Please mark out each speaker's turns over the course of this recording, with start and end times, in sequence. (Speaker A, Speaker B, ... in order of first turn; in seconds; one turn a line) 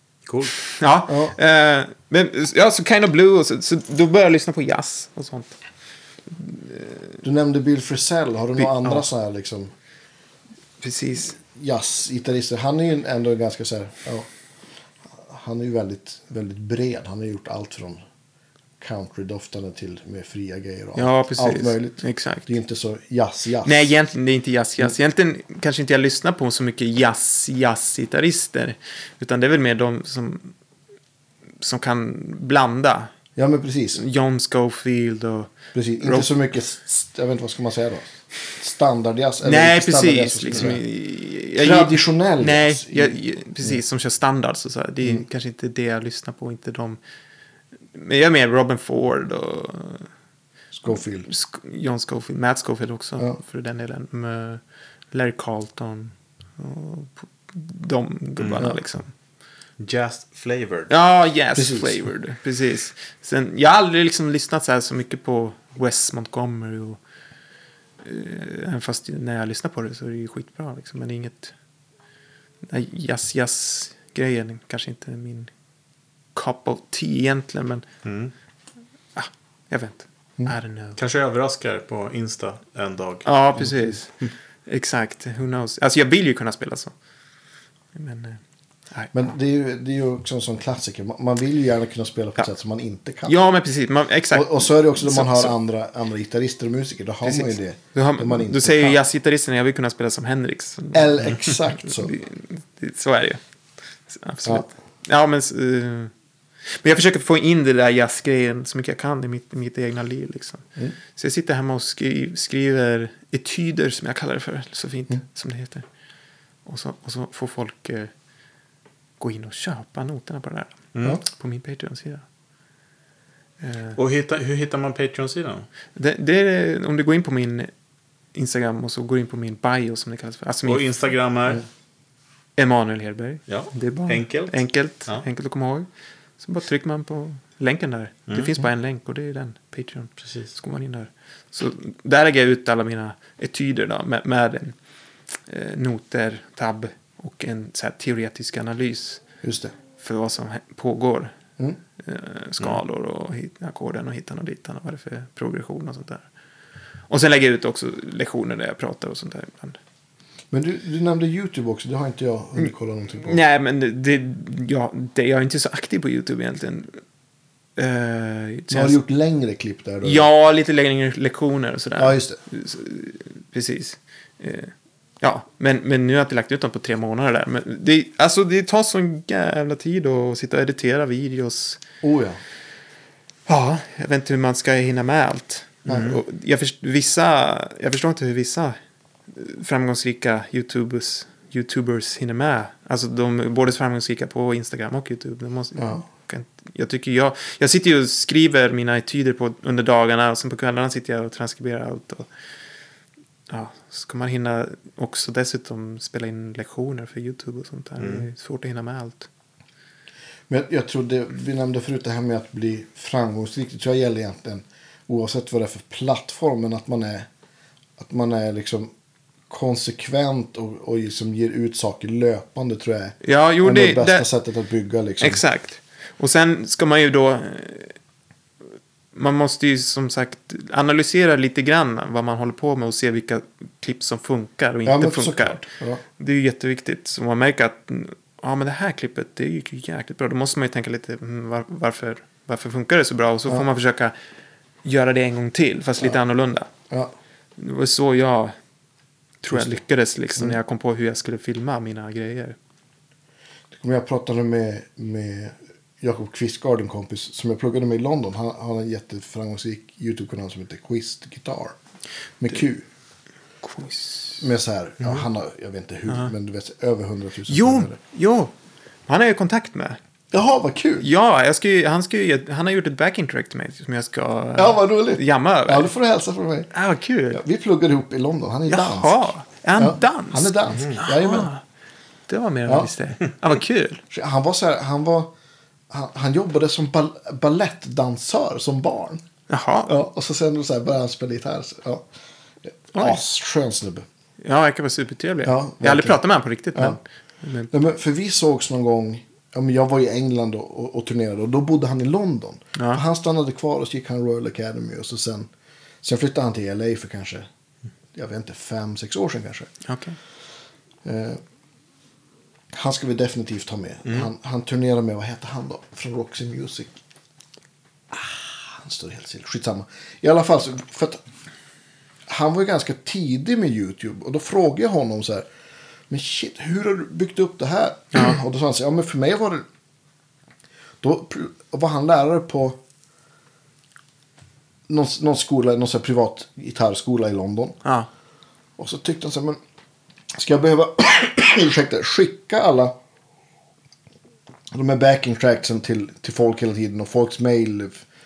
Speaker A: 0.3-0.6
Speaker B: 0.6-5.6
Speaker C: 1.1-1.4
Speaker B: 6.3-7.2
Speaker C: 7.2-9.7
Speaker B: 8.6-9.0
Speaker B: 10.8-11.4
Speaker C: 11.5-14.3
Speaker C: 15.1-18.0
Speaker C: 18.8-23.9
Speaker B: 20.9-22.5
Speaker B: 23.6-30.5
Speaker B: 31.6-33.1
Speaker C: 33.4-34.0
Speaker B: 34.0-36.3
Speaker C: 35.7-40.8
Speaker B: 39.4-47.0
Speaker C: 41.6-43.8
Speaker B: 47.9-50.1
Speaker C: 50.7-51.3
Speaker B: 50.9-54.6
Speaker B: 55.1-59.1
Speaker A: 59.8-60.9
Speaker B: 60.9-67.0
Speaker C: 61.5-62.1
Speaker B: 68.0-71.5
Speaker B: 72.7-75.5
Speaker B: 76.3-77.8
Speaker A: 78.0-78.3
Speaker B: 79.2-81.0
Speaker A: 81.0-83.3
Speaker B: 83.2-84.1
Speaker B: 84.7-86.9
Speaker B: 88.0-88.4
Speaker C: 89.1-93.3
Speaker B: 93.2-95.5
Speaker C: 94.3-99.0
Speaker B: 97.2-103.4
Speaker C: 100.9-102.1
Speaker B: 104.1-106.1
Speaker B: 106.8-115.8
Speaker B: 116.7-118.1
Speaker B: 119.2-122.2
Speaker A: 120.9-121.2
Speaker B: 123.6-124.0
Speaker A: 124.0-125.7
Speaker B: 126.0-127.7
Speaker B: 128.3-130.8
Speaker A: 130.6-131.6
Speaker B: 132.6-135.9
Speaker A: 133.5-135.2
Speaker B: 136.4-144.8
Speaker A: 138.3-138.6
Speaker A: 140.2-140.5
Speaker B: 145.5-149.2
Speaker C: 149.4-149.7
Speaker B: 150.0-151.3
Speaker B: 152.0-156.3
Speaker B: 157.1-159.8
Speaker C: 160.5-163.4
Speaker B: 162.6-167.0
Speaker B: 167.8-169.0
Speaker C: 168.7-170.3
Speaker B: 170.0-181.8
Speaker C: 172.0-172.4
Speaker C: 182.0-182.4
Speaker B: 183.5-188.8
Speaker A: 185.9-186.2
Speaker B: 189.3-202.3
Speaker C: 195.8-196.0
Speaker B: 203.5-209.3
Speaker A: 208.0-208.2
Speaker C: 210.5-217.3
Speaker C: 218.0-218.9
Speaker C: 219.5-225.4
Speaker B: 223.2-224.3
Speaker B: 225.2-227.9
Speaker B: 229.1-235.7
Speaker C: 234.8-236.0
Speaker B: 236.2-244.1
Speaker B: 244.8-246.7
Speaker B: 247.6-248.6
Speaker B: 249.4-252.6
Speaker C: 249.5-249.8
Speaker C: 253.7-261.8
Speaker C: 262.4-262.9
Speaker B: 263.6-264.4
Speaker C: 264.4-268.0
Speaker B: 267.5-268.5
Speaker B: 269.1-270.0
Speaker C: 270.3-271.1
Speaker B: 271.0-275.9
Speaker C: 274.6-276.7
Speaker B: 276.7-277.4
Speaker C: 277.3-281.5
Speaker B: 278.7-281.6
Speaker A: 280.7-281.0
Speaker B: 282.3-284.0
Speaker C: 284.1-285.3
Speaker C: 285.9-289.2
Speaker B: 289.5-289.9
Speaker C: 289.9-292.1
Speaker C: 292.7-294.1
Speaker B: 292.9-293.2
Speaker B: 294.4-297.7
Speaker C: 295.4-296.2
Speaker C: 296.7-297.0
Speaker C: 297.7-305.5
Speaker B: 302.8-303.0
Speaker C: 306.0-307.5
Speaker C: 308.1-309.7
Speaker B: 309.9-310.2
Speaker C: 311.0-311.4
Speaker C: 312.7-317.0
Speaker C: 318.1-321.2
Speaker C: 322.3-325.5
Speaker C: 326.1-329.6
Speaker C: 331.0-332.8
Speaker C: 334.9-337.8
Speaker C: 338.8-339.6
Speaker C: 340.3-342.9
Speaker C: 344.7-348.0